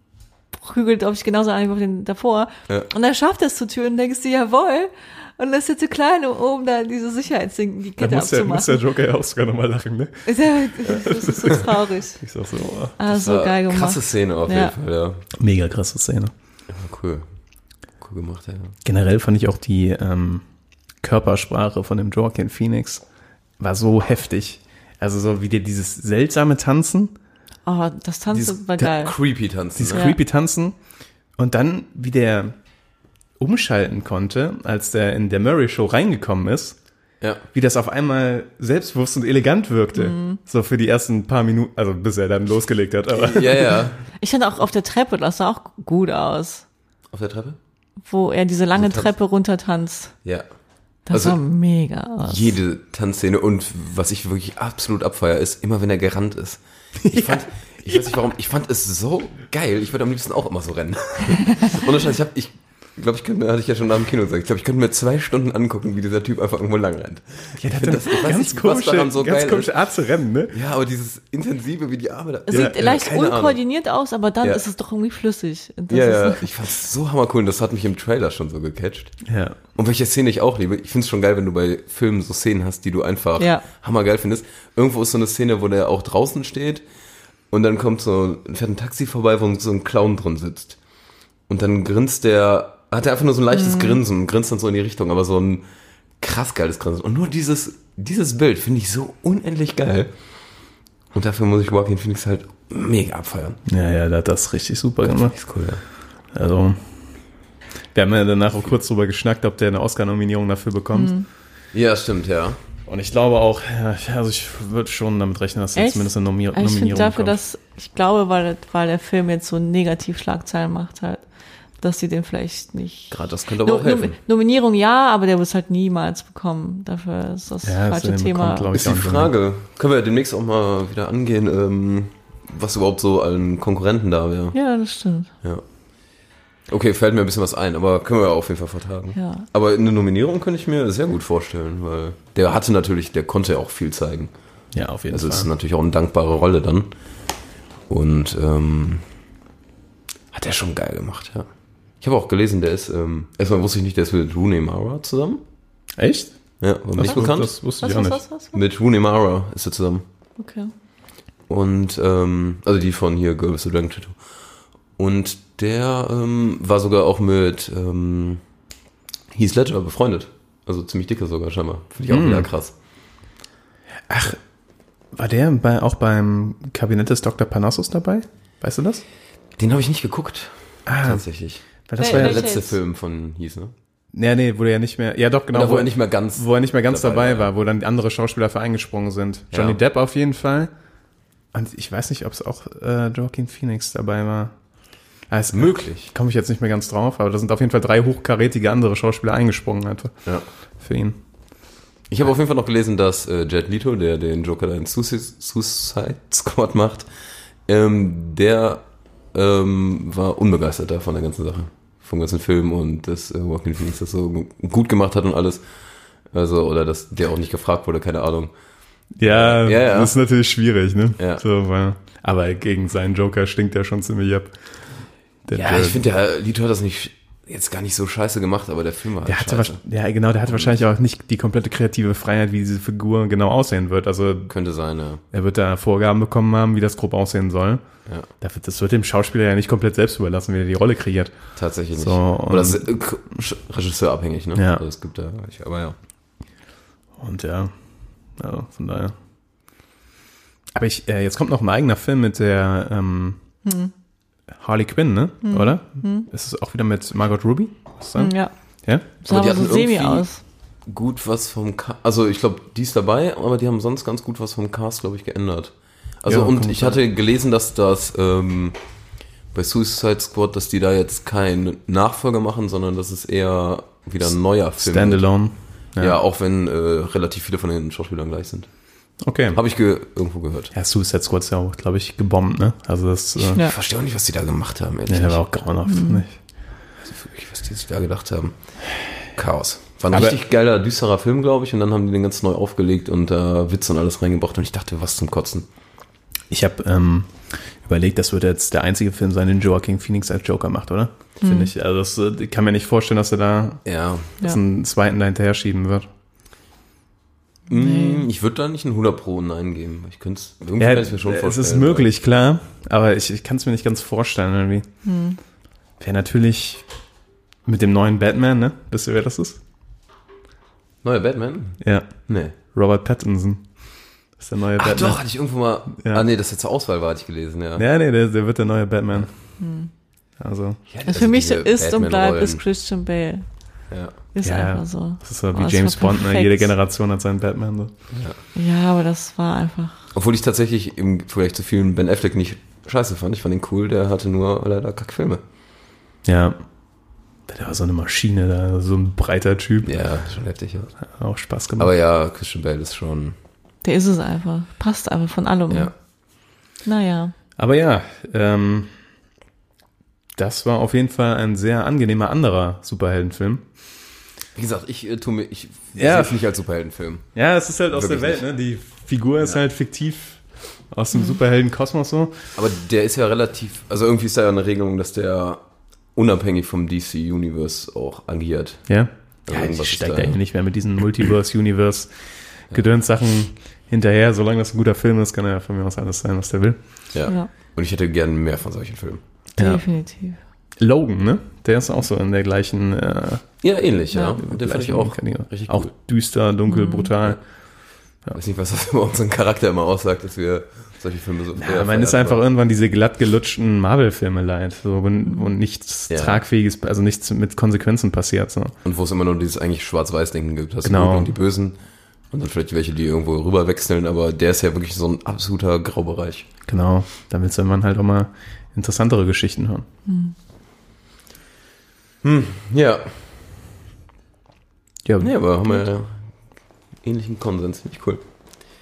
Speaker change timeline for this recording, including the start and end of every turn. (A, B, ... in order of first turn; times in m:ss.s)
0:00.5-0:08.8 A
0:08.0-0:13.0 B
0:10.3-0:12.2 A
0:13.0-0:14.7 A
0:13.1-0:15.2 C
0:15.4-0:16.3 B
0:16.7-0:17.3 C
0:18.0-0:18.8 C
0:18.8-0:20.4 B
0:21.0-0:23.0 B
0:23.6-0:27.1 B
0:27.6-0:29.2 A
0:28.3-0:30.1 C
0:29.8-0:30.8 B
0:29.9-0:30.2 A
0:31.4-0:32.6 B
0:33.4-0:36.8 B
0:37.5-0:43.8 B
0:40.0-0:40.4 A
0:43.1-0:44.0 C
0:44.2-0:46.6 A
0:47.1-0:47.6 C
0:48.1-0:50.2 A
0:48.8-0:49.1 C
0:51.1-0:52.6 A
0:51.1-0:51.4 C
0:52.2-1:09.8 C
0:57.0-0:58.1 B
1:07.6-1:10.6 B
1:10.5-1:13.6 C
1:12.5-1:16.5 A
1:15.9-1:19.2 C
1:19.2-1:19.6 B
1:19.7-1:26.8 C
1:23.4-1:23.7 A
1:27.5-1:30.8 C
1:31.5-1:35.6 C
1:33.5-1:34.0 A
1:36.2-1:40.1 C
1:41.1-1:43.6 C
1:43.7-1:45.4 B
1:45.0-1:45.8 C
1:46.3-1:46.8 B
1:47.9-1:51.1 B
1:50.9-1:51.3 A
1:51.7-1:52.6 C
1:52.9-1:57.4 B
1:55.8-2:01.2 A
2:01.8-2:08.8 A
2:03.1-2:04.2 C
2:07.6-2:09.3 B
2:08.7-2:14.6 C
2:14.5-2:15.3 A
2:16.7-2:24.3 C
2:19.2-2:19.5 A
2:24.7-2:25.5 B
2:25.1-2:26.9 C
2:27.9-2:29.0 C
2:30.3-2:31.5 C
2:32.0-2:35.4 C
2:36.0-2:36.4 B
2:36.6-2:37.6 C
2:37.0-2:38.2 B
2:37.8-2:38.6 A
2:38.5-2:40.0 C
2:40.4-2:40.7 A
2:41.5-2:44.2 C
2:45.0-2:48.4 C
2:49.3-2:52.7 C
2:52.1-2:52.5 B
2:54.1-2:54.4 B
2:55.1-2:59.0 B
2:59.6-3:03.7 C
3:00.9-3:01.3 B
3:01.8-3:02.5 B
3:02.0-3:02.8 A
3:04.1-3:10.7 B
3:05.5-3:07.5 C
3:09.5-3:09.8 C
3:11.5-3:14.6 B
3:15.3-3:20.2 B
3:15.5-3:16.1 C
3:20.8-3:21.2 B
3:22.1-3:27.1 C
3:27.7-3:35.6 C
3:36.3-3:38.5 C
3:39.2-3:44.6 B
3:39.2-3:40.2 C
3:45.5-3:46.0 B
3:45.5-3:49.8 C
3:49.3-3:54.5 B
3:50.5-3:50.7 C
3:54.5-3:55.2 C
3:55.3-3:57.8 B
3:58.4-4:01.4 B
4:01.6-4:06.0 C
4:01.9-4:02.9 B
4:04.6-4:04.8 B
4:07.2-4:07.7 B
4:08.4-4:09.2 B
4:10.8-4:13.4 B
4:13.6-4:13.9 A
4:14.6-4:18.4 B
4:15.4-4:16.3 A
4:18.2-4:18.5 A
4:19.2-4:20.4 A
4:19.3-4:20.3 C
4:20.9-4:28.8 C
4:26.3-4:27.0 B
4:29.5-4:35.3 C
4:34.8-4:36.2 B
4:36.0-4:38.7 C
4:39.2-4:39.6 B
4:39.5-4:40.7 C
4:40.7-4:43.6 B
4:43.4-4:45.4 C
4:45.1-4:46.4 B
4:45.9-4:46.2 A
4:47.1-4:48.6 C
4:49.3-4:55.7 C
4:50.1-4:50.4 B
4:56.5-5:03.8 B
5:01.4-5:01.7 A
5:03.8-5:04.4 C
5:04.4-5:06.1 B
5:07.7-5:12.1 C
5:07.7-5:08.3 A
5:10.8-5:14.9 B
5:15.0-5:15.4 A
5:16.0-5:16.8 B
5:17.7-5:19.6 B
5:21.0-5:22.5 C
5:21.8-5:23.7 B
5:24.4-5:25.2 B
5:24.8-5:27.8 C
5:25.9-5:26.2 B
5:27.8-5:29.3 B
5:29.6-5:29.9 A
5:30.4-5:30.8 B
5:30.9-5:32.6 C
5:31.1-5:33.4 A
5:33.9-5:34.2 C
5:34.3-5:36.7 A
5:34.4-5:37.9 B
5:38.1-5:38.4 C
5:38.6-5:40.1 A
5:40.1-5:45.4 C
5:46.2-5:46.6 B
5:47.5-5:50.0 B
5:49.8-5:50.9 C
5:51.0-5:51.9 B
5:51.8-5:53.4 C
5:53.8-5:55.9 A
5:56.8-5:57.3 A
5:57.6-5:59.0 B
6:00.4-6:03.6 B
6:04.6-6:07.3 C
6:06.0-6:06.4 B
6:07.4-6:12.5 B
6:07.9-6:08.4 C
6:12.6-6:15.6 C
6:16.2-6:18.9 C
6:18.9-6:22.1 B
6:19.5-6:20.4 C
6:22.7-6:26.8 B
6:27.1-6:29.2 C
6:29.6-6:30.4 A
6:29.6-6:29.8 B
6:30.8-6:33.6 B
6:33.6-6:35.9 C
6:34.1-6:34.4 A
6:34.4-6:37.4 B
6:36.7-6:37.1 A
6:38.4-6:42.4 C
6:41.6-6:48.7 B
6:46.1-6:46.4 C
6:48.8-6:51.8 C
6:50.8-6:51.3 B
6:52.3-6:56.5 C
6:56.7-6:59.9 B
7:00.1-7:00.4 A
7:02.2-7:03.3 C
7:05.0-7:05.3 B
7:05.2-7:06.2 C
7:07.0-7:08.2 C